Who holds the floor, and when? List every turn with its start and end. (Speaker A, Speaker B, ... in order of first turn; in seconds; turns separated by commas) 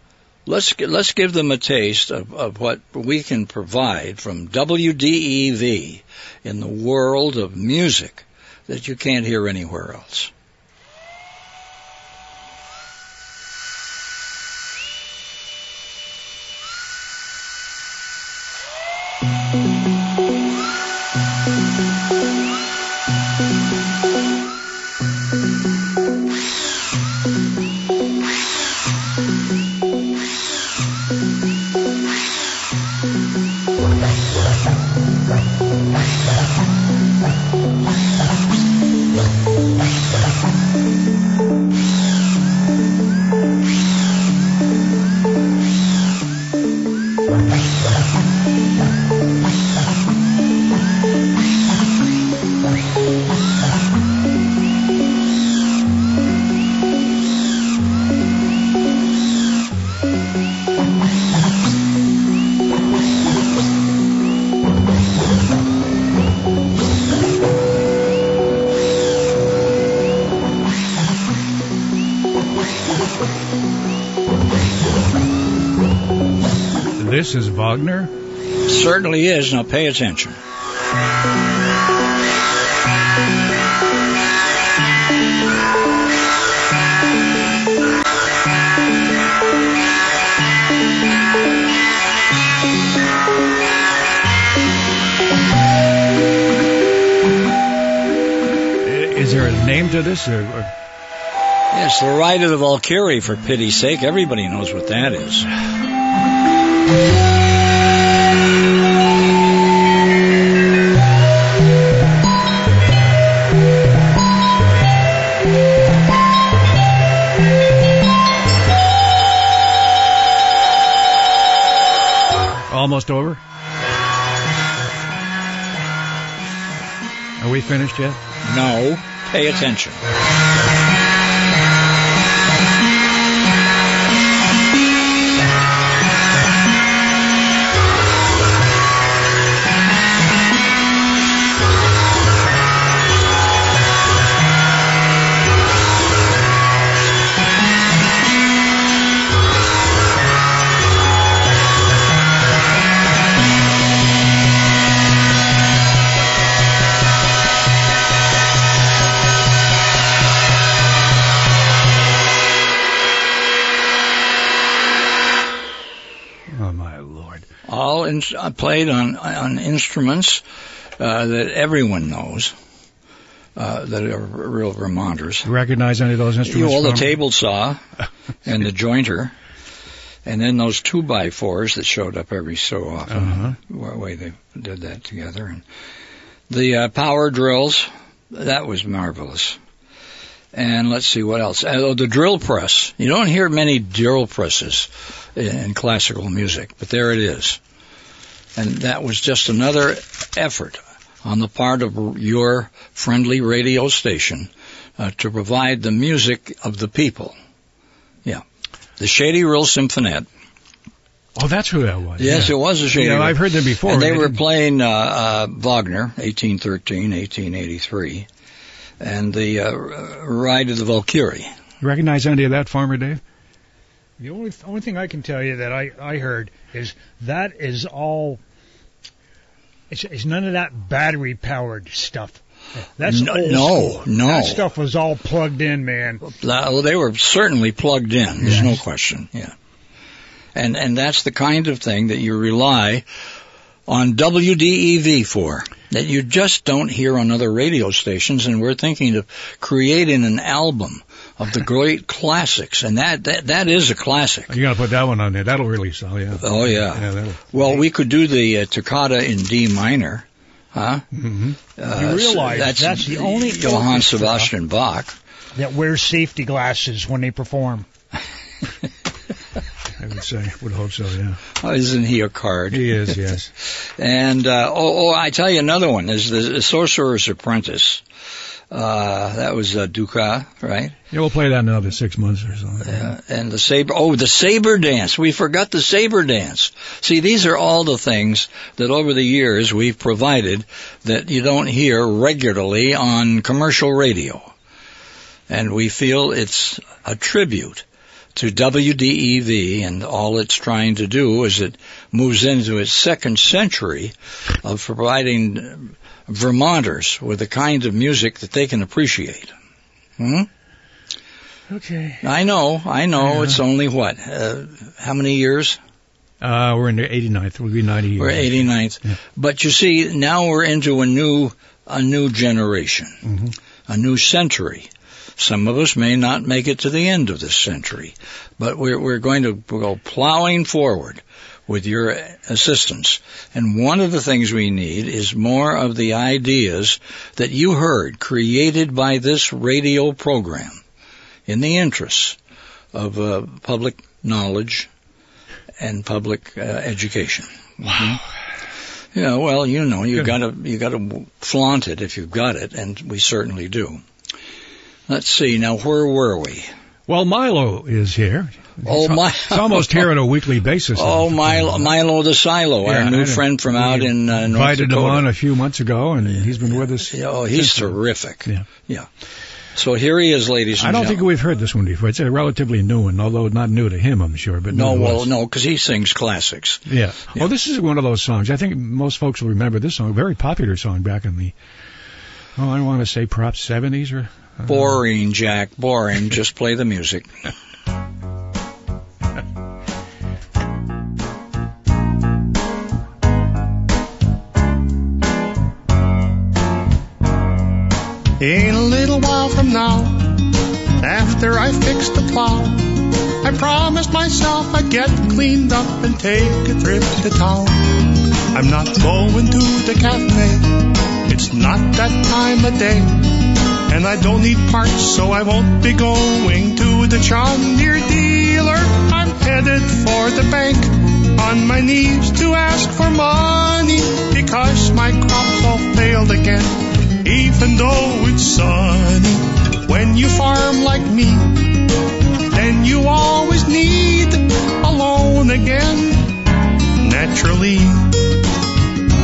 Speaker A: 0.5-10.3, Speaker B: 77.0-78.1, Speaker A: 78.7-80.4, Speaker B: 98.8-100.7, Speaker A: 101.7-105.5, Speaker B: 122.7-123.4, Speaker B: 127.4-128.2, Speaker A: 128.4-130.0, Speaker B: 166.5-167.4, Speaker A: 167.7-170.4, Speaker A: 171.0-172.5, Speaker A: 173.6-175.5, Speaker B: 175.4-177.1, Speaker A: 176.4-177.8, Speaker A: 178.4-179.3, Speaker A: 180.2-185.6, Speaker B: 183.1-183.6, Speaker A: 186.5-189.6, Speaker A: 190.5-197.6, Speaker A: 198.6-207.4, Speaker A: 209.0-210.3, Speaker B: 211.4-214.4, Speaker A: 212.2-218.3, Speaker A: 219.0-221.5, Speaker B: 221.8-223.2, Speaker C: 224.2-228.4, Speaker C: 229.9-236.2, Speaker A: 233.0-234.7, Speaker A: 236.2-239.6, Speaker A: 240.6-243.1, Speaker A: 243.9-254.6, Speaker B: 254.5-257.7, Speaker A: 256.4-261.1, Speaker B: 261.1-261.6, Speaker A: 261.8-265.2, Speaker C: 261.9-264.5, Speaker C: 265.6-267.9, Speaker B: 270.0-271.4, Speaker A: 271.6-278.0, Speaker B: 272.7-273.5, Speaker A: 278.7-280.9, Speaker B: 281.1-283.1, Speaker A: 282.8-294.5, Speaker A: 295.5-309.5, Speaker A: 310.2-310.5, Speaker B: 311.7-312.2, Speaker A: 312.2-315.8, Speaker B: 313.2-313.6, Speaker B: 316.4-319.1, Speaker A: 318.2-323.3, Speaker B: 323.3-323.5, Speaker A: 323.9-340.8, Speaker A: 341.5-342.4, Speaker A: 342.9-344.9, Speaker A: 345.8-348.2, Speaker A: 349.1-354.0, Speaker A: 355.1-356.7, Speaker B: 357.1-361.9, Speaker A: 358.8-360.1, Speaker A: 360.9-365.3, Speaker B: 362.8-368.6, Speaker A: 366.4-369.1, Speaker A: 369.7-371.2, Speaker B: 370.8-375.3, Speaker A: 374.7-377.5, Speaker B: 376.9-381.6, Speaker B: 382.6-384.9, Speaker A: 384.7-387.3, Speaker D: 398.4-400.5, Speaker D: 401.0-431.8, Speaker D: 432.5-436.4, Speaker D: 437.0-438.3